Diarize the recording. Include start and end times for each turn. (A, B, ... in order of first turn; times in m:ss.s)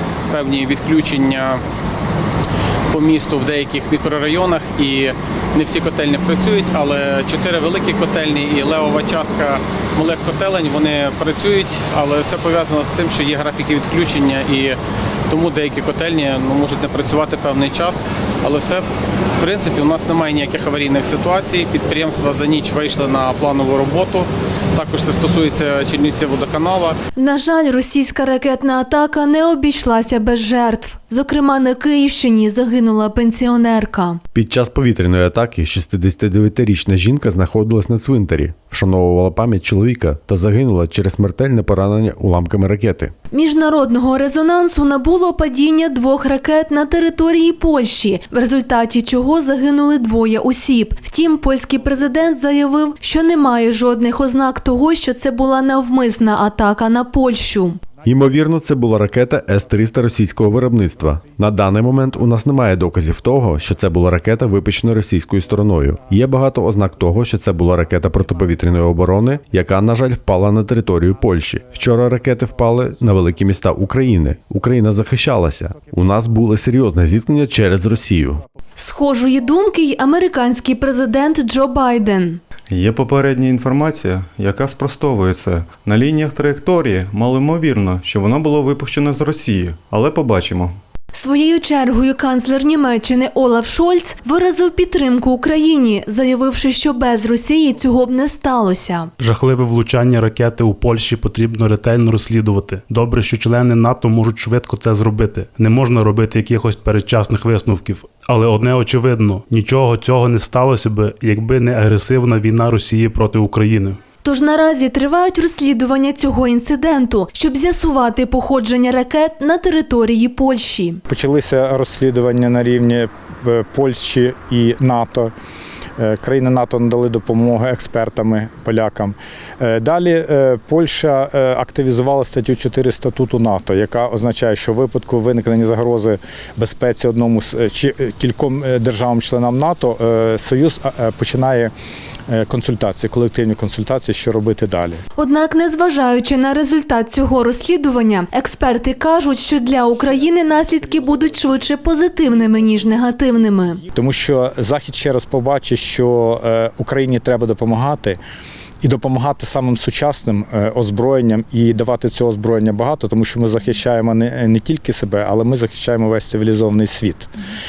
0:00.3-0:01.6 A
0:02.9-0:14.8 A
0:15.3-0:27.0 A
0:27.2-0:34.2 B
0:34.3-0:43.1 C
0:43.3-0:57.8 B
0:58.0-1:18.4 C
1:18.8-1:22.4 B
1:22.7-1:30.8 D
1:31.1-1:39.1 B
1:39.2-1:54.0 E
1:54.2-2:01.0 B
2:01.1-2:05.3 F
2:06.0-2:21.7 F
2:22.3-2:25.0 F
2:25.2-2:33.8 B
2:33.9-2:38.2 F
2:38.8-2:47.3 F